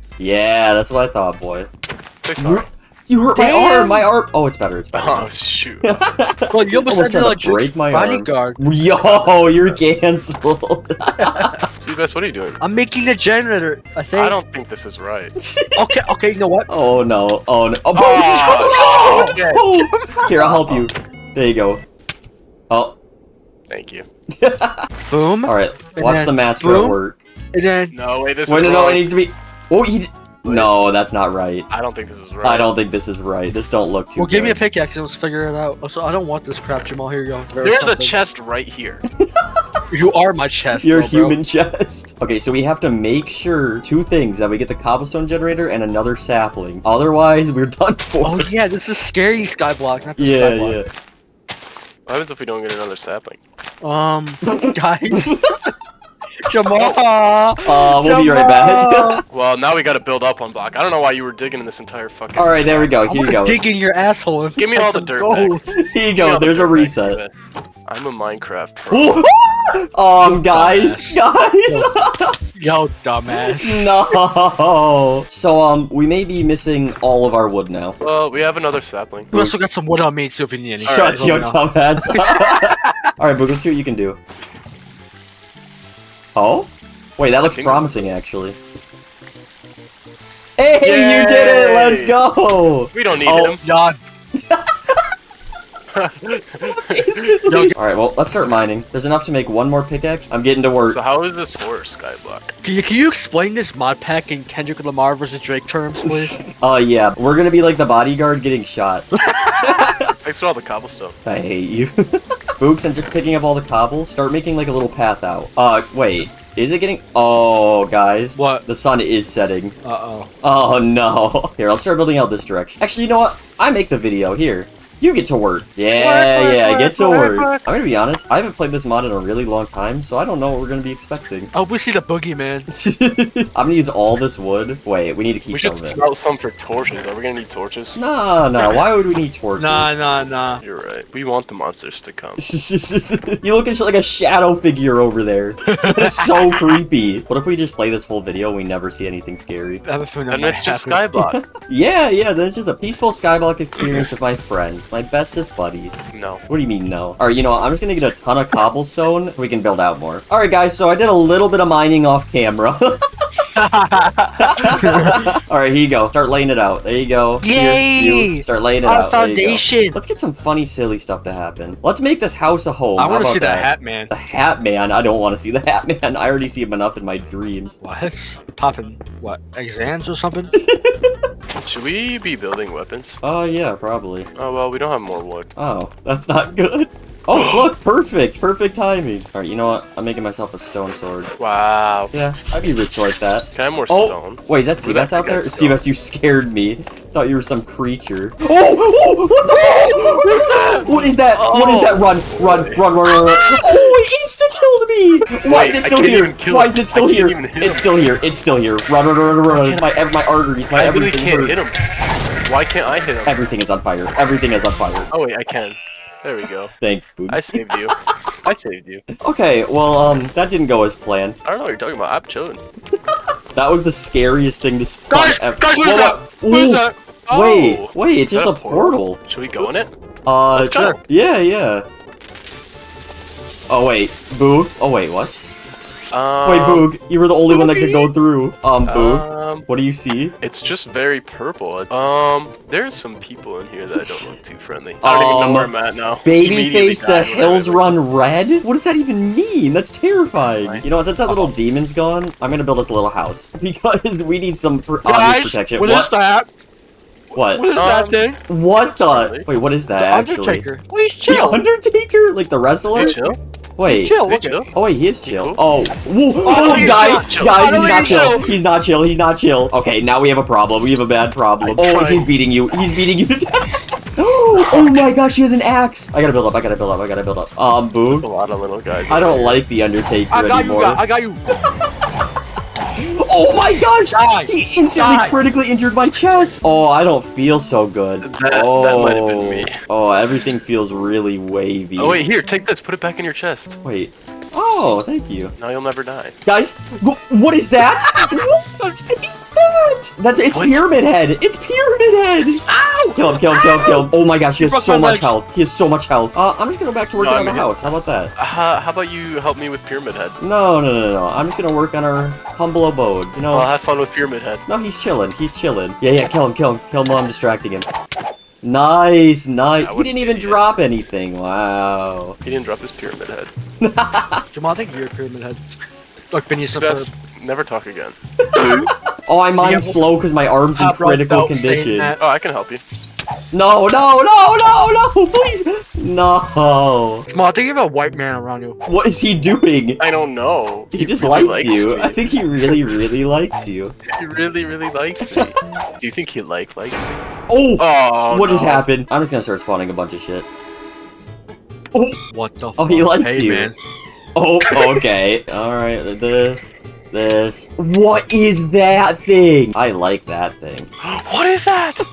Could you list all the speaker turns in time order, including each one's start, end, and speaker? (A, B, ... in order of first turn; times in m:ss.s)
0:00.2-0:01.7 A
0:02.2-0:02.7 B
0:02.4-0:05.3 A
0:03.3-0:04.1 C
0:04.9-0:06.1 B
0:05.8-0:11.5 A
0:06.5-0:08.6 C
0:09.0-0:09.8 B
0:11.2-0:11.6 C
0:11.8-0:12.6 B
0:12.6-0:14.4 C
0:14.1-0:15.4 B
0:15.4-0:15.8 A
0:15.8-0:16.7 C
0:16.7-0:21.8 A
0:17.9-0:19.9 B
0:18.2-0:19.4 C
0:19.9-0:20.7 C
0:22.7-0:23.0 A
0:23.7-0:24.1 B
0:24.4-0:24.9 A
0:25.1-0:27.0 C
0:25.4-0:27.2 A
0:27.5-0:28.0 C
0:27.9-0:29.1 B
0:28.5-0:31.7 A
0:30.4-0:30.7 B
0:31.7-0:32.7 B
0:32.4-0:34.6 A
0:34.2-0:38.2 C
0:37.6-0:39.0 B
0:39.2-0:39.5 A
0:39.9-0:41.4 C
0:40.8-0:48.5 A
0:48.2-0:50.8 C
0:50.2-0:50.9 A
0:52.1-0:53.4 B
0:53.8-0:55.4 C
0:54.5-0:55.3 A
0:56.5-0:59.2 C
0:57.6-0:59.2 A
0:59.3-1:03.0 B
1:02.4-1:03.6 A
1:03.1-1:05.7 C
1:04.6-1:07.3 B
1:05.8-1:07.2 A
1:07.9-1:09.3 B
1:08.9-1:12.4 A
1:10.2-1:11.9 C
1:12.6-1:14.2 C
1:13.3-1:18.0 A
1:18.0-1:19.3 B
1:19.3-1:23.0 C
1:20.8-1:21.3 B
1:20.8-1:24.2 A
1:26.4-1:28.6 A
1:27.4-1:28.1 B
1:30.6-1:33.6 A
1:30.8-1:32.2 B
1:32.9-1:33.6 B
1:33.6-1:34.0 C
1:34.5-1:35.0 A
1:35.9-1:37.3 B
1:36.9-1:41.0 A
1:37.5-1:37.8 C
1:40.9-1:42.5 B
1:42.6-1:46.4 C
1:46.1-1:50.1 A
1:50.2-1:51.2 B
1:51.2-1:52.0 A
1:52.6-1:59.8 A
1:58.4-1:58.6 C
1:59.8-2:00.3 C
2:00.4-2:11.5 A
2:05.9-2:07.7 B
2:11.5-2:12.7 C
2:12.7-2:16.0 A
2:15.5-2:18.0 B
2:18.0-2:20.0 A
2:19.6-2:20.6 C
2:20.6-2:22.4 B
2:22.4-2:29.8 A
2:25.8-2:26.8 C
2:29.8-2:31.1 C
2:30.3-2:31.4 B
2:31.2-2:43.0 A
2:36.1-2:36.4 B
2:43.6-2:45.4 C
2:44.4-2:57.8 A
2:47.4-2:50.0 C
2:53.0-2:54.1 C
2:57.8-3:00.5 C
3:00.6-3:01.1 A
3:01.6-3:03.2 B
3:03.2-3:04.3 A
3:04.4-3:05.5 B
3:05.6-3:11.3 A
3:07.3-3:07.7 B
3:11.4-3:12.1 B
3:12.1-3:31.7 A
3:13.5-3:15.8 B
3:19.4-3:21.1 C
3:21.3-3:24.0 B
3:25.4-3:28.2 B
3:29.5-3:29.9 B
3:30.7-3:31.8 B
3:32.4-3:33.4 B
3:33.2-3:35.1 A
3:35.1-3:36.7 B
3:36.8-3:37.6 A
3:37.3-3:39.1 B
3:39.2-3:41.4 A
3:41.4-3:42.6 B
3:43.6-3:49.7 A
3:45.1-3:47.0 C
3:47.3-3:49.9 B
3:50.3-3:51.8 A
3:50.5-3:51.0 B
3:53.7-3:55.3 A
3:56.1-3:56.9 B
3:56.4-4:00.3 A
3:57.5-3:58.1 C
3:58.9-3:59.7 B
4:00.4-4:08.0 B
4:05.0-4:05.7 A
4:06.2-4:16.1 A
4:10.4-4:10.9 B
4:15.0-4:16.5 C
4:17.3-4:18.4 C
4:17.4-4:17.7 A
4:17.7-4:18.3 B
4:18.5-4:20.7 A
4:18.9-4:19.5 B
4:20.0-4:21.6 C
4:21.3-4:23.2 A
4:22.9-4:23.4 B
4:23.0-4:24.6 C
4:23.8-4:24.2 A
4:24.2-4:24.7 B
4:24.7-4:38.3 A
4:25.3-4:25.6 B
4:26.4-4:28.6 C
4:26.5-4:28.5 B
4:31.6-4:32.3 B
4:34.6-4:35.0 B
4:38.1-4:39.7 B
4:39.1-4:41.0 A
4:40.3-4:41.4 C
4:43.0-4:52.2 A
4:44.1-4:45.4 C
4:48.2-4:49.8 B
4:52.0-4:53.8 B
4:53.8-4:55.5 A
4:55.6-4:56.4 B
4:56.4-5:08.3 A
4:58.1-4:58.4 C
5:00.5-5:00.9 B
5:02.7-5:05.4 C
5:07.2-5:07.8 B
5:08.4-5:10.4 B
5:10.4-5:13.7 A
5:13.5-5:14.6 B
5:14.7-5:17.9 A
5:18.6-5:22.4 A
5:19.8-5:20.8 B
5:22.4-5:23.5 B
5:23.8-5:24.4 A
5:24.5-5:25.6 C
5:26.3-5:27.1 C
5:26.8-5:28.2 B
5:28.4-5:32.2 A
5:28.6-5:28.9 C
5:29.6-5:30.1 C
5:30.8-5:32.2 C
5:32.2-5:32.8 B
5:33.5-5:37.3 A
5:37.3-5:38.8 C
5:38.9-5:40.0 A
5:40.0-5:43.1 B
5:40.9-5:44.0 A
5:44.1-5:47.2 B
5:47.5-5:50.5 A
5:47.8-5:48.9 B
5:52.3-5:53.8 C
5:52.8-5:53.7 A
5:54.4-6:00.9 A
5:54.6-5:55.0 C
6:01.0-6:02.0 B